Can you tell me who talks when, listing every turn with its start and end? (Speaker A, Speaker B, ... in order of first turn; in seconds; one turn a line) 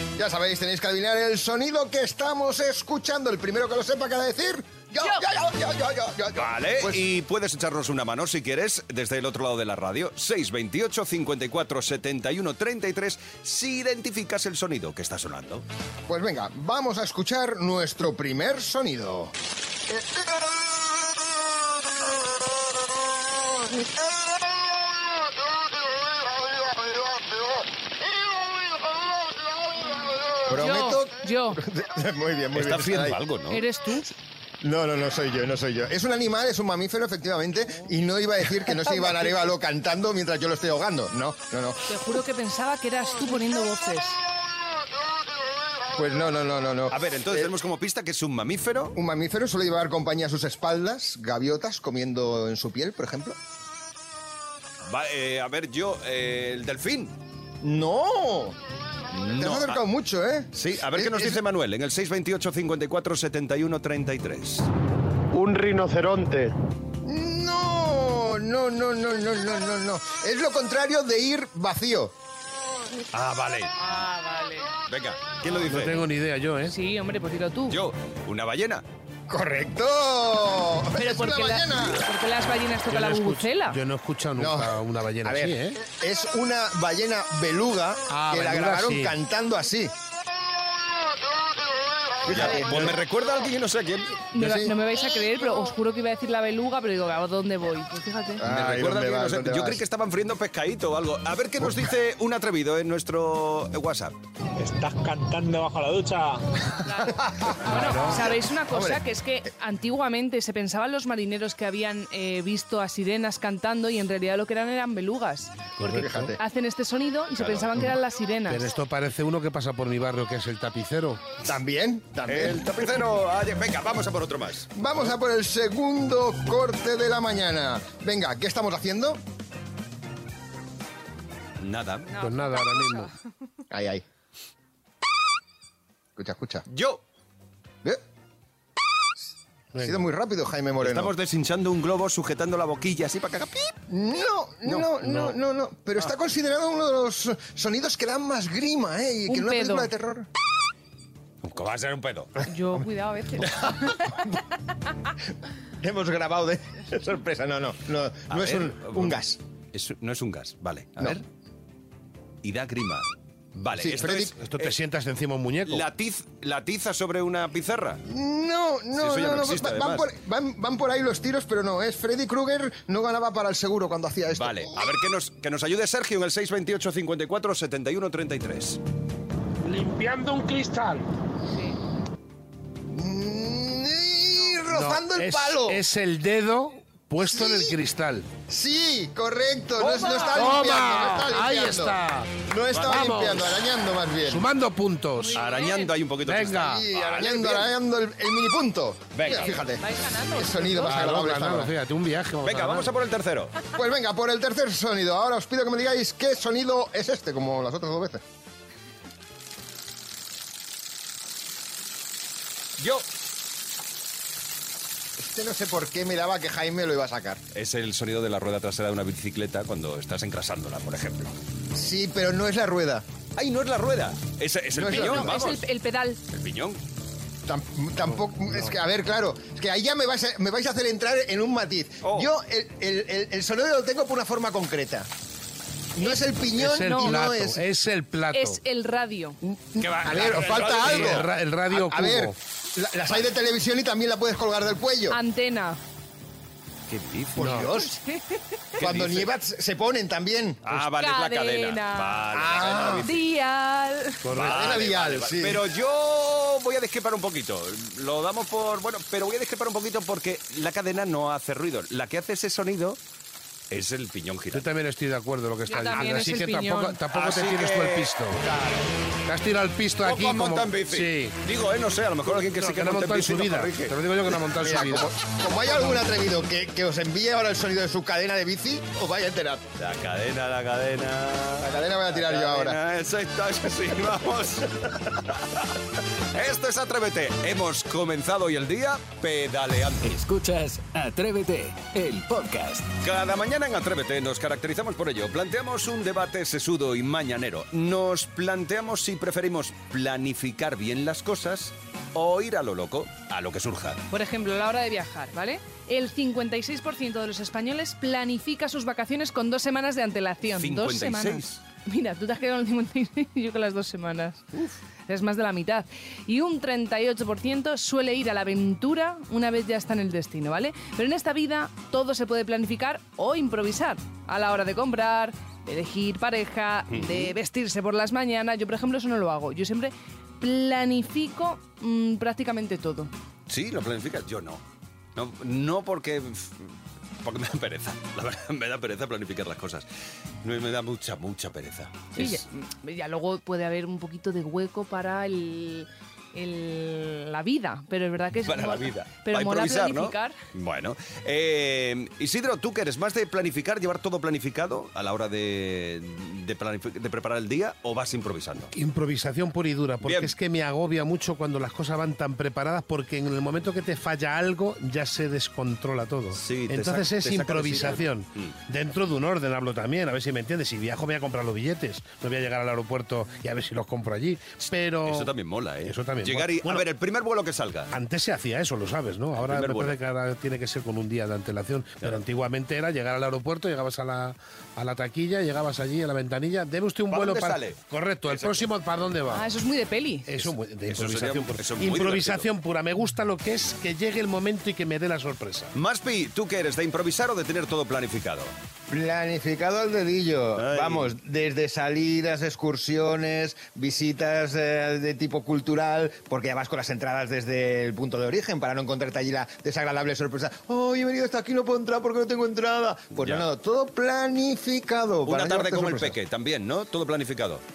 Speaker A: 0.2-7.0
Speaker B: 6.3-15.7
Speaker A: 16.1-19.3
Speaker A: 30.4-33.2
Speaker C: 30.5-31.6
Speaker B: 32.5-33.6
Speaker C: 33.5-34.1
Speaker A: 34.6-41.8
Speaker C: 41.9-44.2
Speaker A: 45.9-47.5
Speaker B: 46.9-49.0
Speaker A: 49.0-53.4
Speaker B: 54.8-57.1
Speaker A: 57.6-58.6
Speaker B: 59.1-59.8
Speaker A: 59.4-61.4
Speaker B: 60.5-64.7
Speaker D: 65.3-66.5
Speaker A: 67.0-72.1
Speaker B: 73.1-73.8
Speaker C: 73.8-74.7
Speaker B: 74.9-76.0
Speaker E: 75.7-76.7
Speaker C: 76.6-77.8
Speaker B: 77.7-78.8
Speaker A: 79.3-82.0
Speaker C: 81.0-83.8
Speaker E: 82.9-85.8
Speaker A: 84.4-89.9
Speaker E: 88.1-89.1
Speaker A: 92.2-93.0
Speaker B: 92.3-94.2
Speaker C: 94.3-98.4
Speaker A: 94.4-94.7
Speaker A: 98.4-99.8
Speaker B: 98.5-104.2
Speaker D: 104.6-106.4
Speaker C: 106.9-118.7
Speaker A: 107.2-109.1
Speaker E: 107.7-108.1
Speaker E: 115.8-116.3
Speaker A: 115.9-116.4
Speaker B: 117.4-117.8
Speaker E: 118.5-121.3
Speaker A: 121.5-122.7
Speaker B: 122.3-124.9
Speaker A: 124.8-129.2
Speaker B: 131.6-132.1
Speaker C: 132.1-133.1
Speaker E: 132.2-133.1
Speaker A: 133.7-134.1
Speaker A: 136.2-136.6
Speaker B: 136.7-137.0
Speaker E: 139.7-140.1
Speaker A: 139.8-141.1
Speaker B: 140.8-143.8
Speaker A: 143.9-150.3
Speaker E: 145.0-145.4
Speaker C: 149.2-149.9
Speaker B: 151.4-152.3
Speaker C: 152.5-153.8
Speaker A: 155.8-159.4
Speaker B: 158.3-159.2
Speaker B: 159.7-161.2
Speaker B: 162.4-164.8
Speaker A: 163.8-164.3
Speaker E: 164.4-165.8
Speaker B: 165.7-168.0
Speaker A: 168.1-174.8
Speaker B: 169.0-170.1
Speaker B: 174.3-178.8
Speaker E: 179.7-181.0
Speaker C: 181.5-181.8
Speaker A: 182.9-185.8
Speaker E: 184.7-188.3
Speaker A: 187.3-187.8
Speaker A: 188.5-194.5
Speaker B: 189.8-190.3
Speaker C: 189.9-190.5
Speaker E: 190.3-193.4
Speaker B: 192.8-193.1
Speaker E: 194.2-195.4
Speaker C: 195.1-195.9
Speaker B: 195.3-197.7
Speaker E: 196.2-196.9
Speaker A: 196.6-201.7
Speaker B: 199.1-199.6
Speaker C: 199.3-201.0
Speaker E: 200.8-202.9
Speaker B: 202.4-203.6
Speaker A: 203.7-208.2
Speaker B: 212.8-213.1
Speaker A: 215.2-217.4
Speaker B: 217.5-221.3
Speaker A: 221.7-223.1
Speaker B: 223.4-225.6
Speaker A: 224.7-225.4
Speaker C: 224.9-226.2
Speaker B: 226.3-226.8
Speaker A: 227.5-235.1
Speaker B: 232.0-232.3
Speaker A: 235.9-237.6
Speaker E: 236.6-238.6
Speaker C: 236.8-237.1
Speaker C: 238.3-239.4
Speaker A: 239.4-245.2
Speaker B: 239.8-241.3
Speaker E: 240.1-242.3
Speaker C: 245.1-245.8
Speaker B: 246.9-247.6
Speaker E: 247.4-247.7
Speaker A: 247.4-247.9
Speaker C: 247.9-248.4
Speaker B: 248.8-249.3
Speaker A: 248.8-250.6
Speaker B: 250.7-253.2
Speaker C: 250.8-252.2
Speaker A: 252.3-253.1
Speaker C: 253.0-254.2
Speaker E: 254.2-254.7
Speaker A: 254.3-255.7
Speaker B: 254.3-263.0
Speaker B: 263.7-264.7
Speaker E: 264.5-268.4
Speaker C: 265.7-267.0
Speaker B: 265.7-266.1
Speaker B: 267.1-268.9
Speaker E: 269.3-271.4
Speaker B: 270.0-273.9
Speaker E: 272.4-275.1
Speaker A: 274.6-279.7
Speaker B: 279.8-285.6
Speaker A: 281.6-282.8
Speaker B: 286.3-290.1
Speaker F: 290.0-293.0
Speaker B: 293.0-304.0
Speaker C: 304.1-314.4
Speaker B: 310.6-311.6
Speaker C: 315.1-333.1
Speaker B: 326.9-327.3
Speaker B: 333.5-334.6
Speaker B: 335.1-339.9
Speaker B: 340.4-342.4
Speaker C: 342.1-350.4
Speaker B: 348.4-358.7
Speaker E: 358.7-375.3
Speaker B: 360.0-360.3
Speaker B: 366.3-368.5
Speaker B: 375.1-377.9
Speaker E: 375.9-376.9
Speaker E: 377.9-389.5
Speaker B: 379.4-380.0
Speaker B: 387.1-388.7
Speaker C: 389.3-390.2
Speaker E: 390.3-395.7
Speaker B: 390.4-392.5
Speaker B: 395.8-398.5
Speaker A: 398.9-416.2
Speaker B: 400.6-401.1
Speaker B: 413.2-413.5
Speaker B: 415.2-417.6